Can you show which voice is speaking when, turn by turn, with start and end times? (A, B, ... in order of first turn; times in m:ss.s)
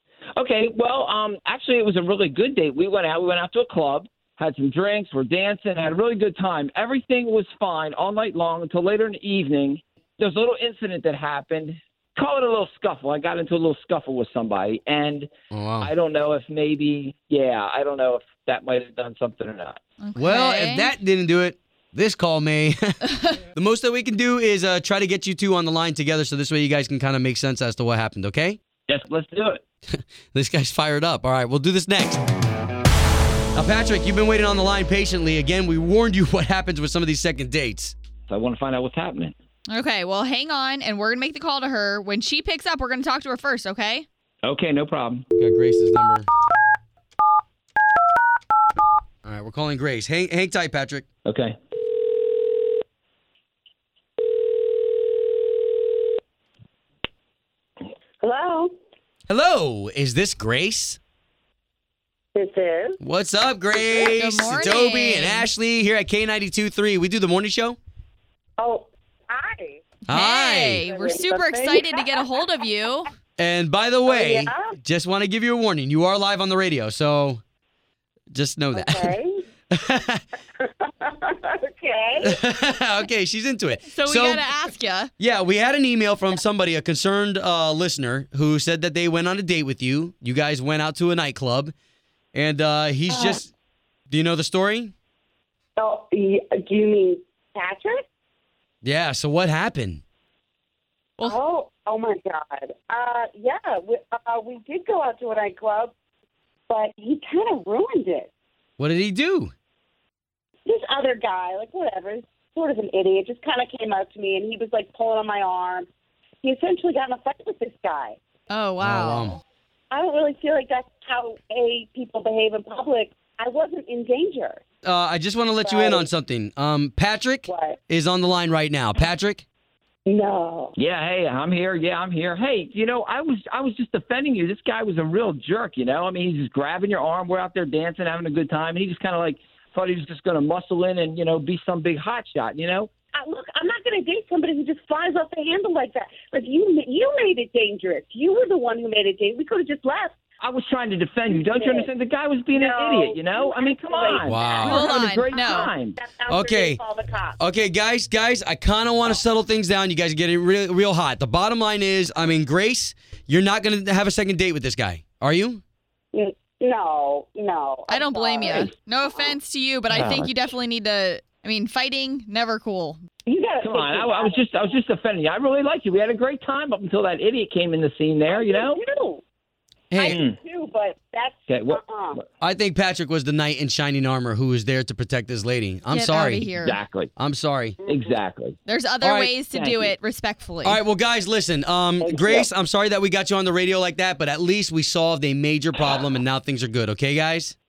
0:00.4-0:19.8 A
0:15.5-0:15.9 B
0:20.0-0:20.9 C
0:20.2-0:28.6 B
0:28.9-0:29.6 A
0:29.9-0:32.2 B
0:33.5-0:37.9 B
0:38.3-0:39.3 A
0:39.7-0:44.0 C
0:44.4-0:45.2 A
0:45.3-0:46.3 B
0:49.2-0:51.0 B
0:51.2-0:51.6 A
0:58.2-0:58.7 D
0:59.3-1:01.0 B
1:02.3-1:03.0 D
1:03.0-1:07.8 B
1:04.1-1:05.5 C
1:08.6-1:09.8 D
1:10.1-1:10.8 B
1:10.1-1:13.1 C
1:10.8-1:12.2 D
1:13.4-1:17.4 B
1:14.0-1:14.8 D
1:18.3-1:19.2 B
1:18.7-1:19.4 D
1:19.7-1:20.2 B
1:20.6-1:22.4 D
1:22.2-1:24.4 B
1:23.9-1:25.1 C
1:25.2-1:31.7 B
1:32.3-1:33.5 B
1:33.1-1:33.4 D
1:34.1-1:34.9 B
1:35.8-1:38.0 D
1:38.8-1:40.0 B
1:41.2-1:45.9 D
1:46.7-1:48.3 D
1:48.8-1:49.5 B
1:50.6-1:55.9 D
1:56.4-1:58.2 D
1:58.5-1:59.3 C
1:58.8-1:59.4 B
1:59.9-2:04.6 D
2:04.8-2:09.4 B
2:05.6-2:06.1 D
2:07.5-2:07.8 D
2:10.0-2:10.7 D
2:10.8-2:22.9 A
2:23.2-2:30.1 D
2:30.4-2:36.0 A
2:31.3-2:31.9 D
2:32.5-2:37.4 D
2:34.2-2:34.8 B
2:34.7-2:35.7 C
2:36.3-2:36.8 B
2:37.4-2:45.6 B
2:46.1-2:49.3 D
2:47.9-2:53.0 C
2:49.9-2:50.3 A
2:53.2-2:54.8 D
2:53.6-2:58.8 A
2:58.3-2:59.2 D
2:59.9-3:00.2 B
3:00.0-3:02.2 D
3:00.0-3:00.4 A
3:01.5-3:02.2 A
3:02.4-3:06.5 B
3:05.9-3:06.8 C
3:06.6-3:07.1 A
3:07.2-3:07.8 B
3:07.8-3:08.1 D
3:07.8-3:08.6 A
3:08.6-3:10.8 C
3:09.0-3:09.3 B
3:09.5-3:09.9 A
3:10.6-3:17.5 B
3:12.0-3:12.5 D